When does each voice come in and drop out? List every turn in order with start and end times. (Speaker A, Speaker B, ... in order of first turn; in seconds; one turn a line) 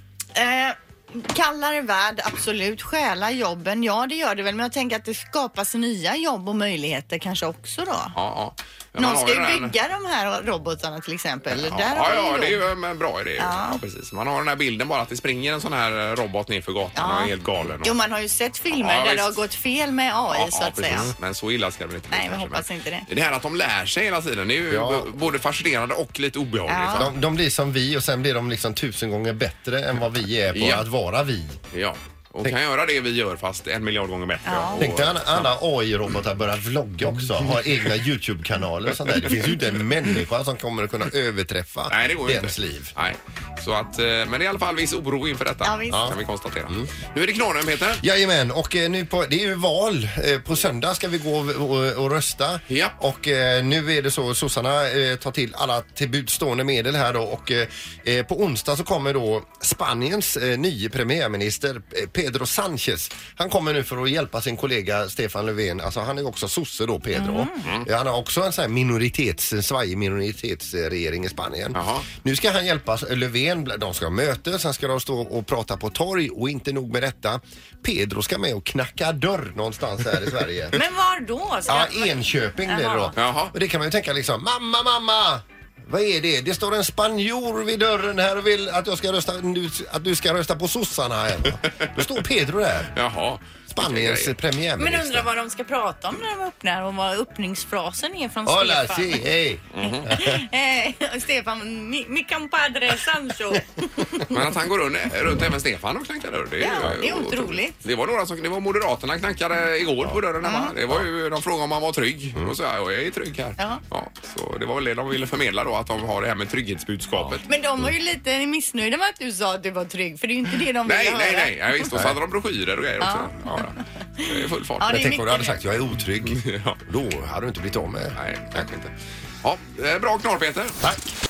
Speaker A: 0.3-8.2
Speaker B: 8.2-9.7
Speaker A: 9.0-12.6
Speaker B: 11.5-18.0
Speaker A: 13.4-13.8
Speaker A: 17.0-17.3
Speaker A: 17.8-21.1
Speaker B: 18.8-19.4
Speaker B: 20.3-27.1
Speaker A: 22.1-23.1
Speaker C: 24.7-25.1
Speaker A: 26.7-27.1
Speaker C: 26.9-31.6
Speaker B: 30.5-30.8
Speaker B: 31.7-35.5
Speaker A: 34.5-34.9
Speaker C: 34.8-42.9
Speaker B: 41.9-48.0
Speaker A: 45.6-46.1
Speaker C: 48.0-80.8
Speaker B: 52.7-53.0
Speaker A: 67.2-67.6
Speaker B: 71.7-72.1
Speaker A: 80.7-83.2
Speaker C: 81.7-92.9
Speaker B: 83.2-83.5
Speaker B: 93.0-94.3
Speaker C: 93.7-95.3
Speaker A: 94.8-99.2
Speaker C: 98.5-100.4
Speaker B: 99.8-100.1
Speaker A: 99.8-104.4
Speaker B: 104.3-117.4
Speaker A: 106.6-107.8
Speaker A: 110.4-110.7
Speaker C: 117.1-117.4
Speaker A: 117.5-121.9
Speaker B: 120.8-124.9
Speaker A: 123.0-123.6
Speaker A: 124.2-125.6
Speaker C: 124.9-128.2
Speaker B: 126.3-126.8
Speaker B: 128.2-130.8
Speaker C: 130.8-131.1